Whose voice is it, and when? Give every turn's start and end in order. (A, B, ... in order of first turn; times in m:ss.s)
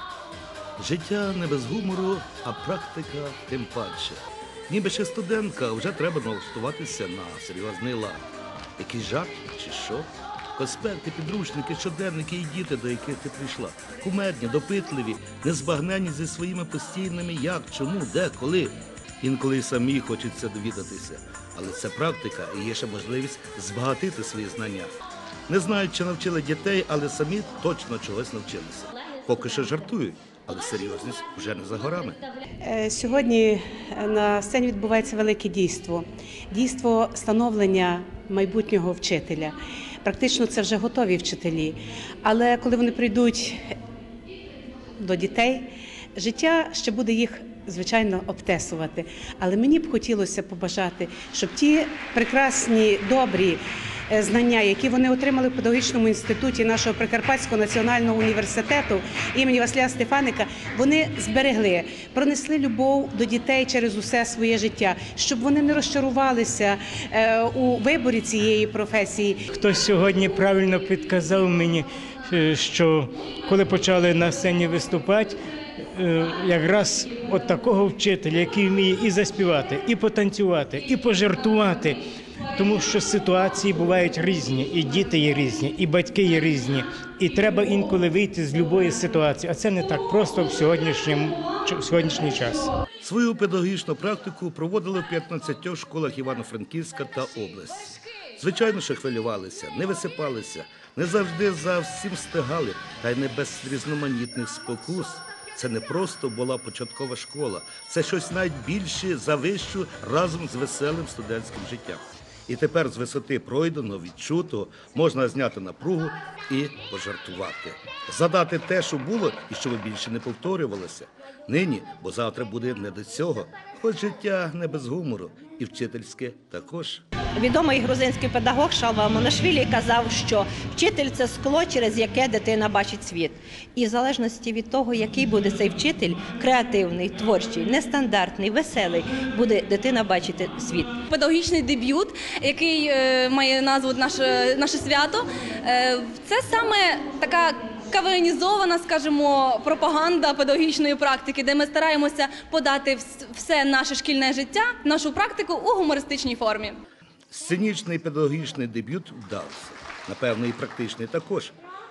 0:00.8-0:08.2 A
0:08.8-0:24.9 A
0:25.5-0:32.2 A
0:32.6-0:43.6 B
0:45.0-1:09.4 B
1:09.5-1:15.4 C
1:15.9-1:22.0 C
1:22.6-1:32.7 C
1:33.0-2:07.0 A
2:07.4-2:21.0 D
2:21.1-2:36.8 E
2:37.3-2:41.6 A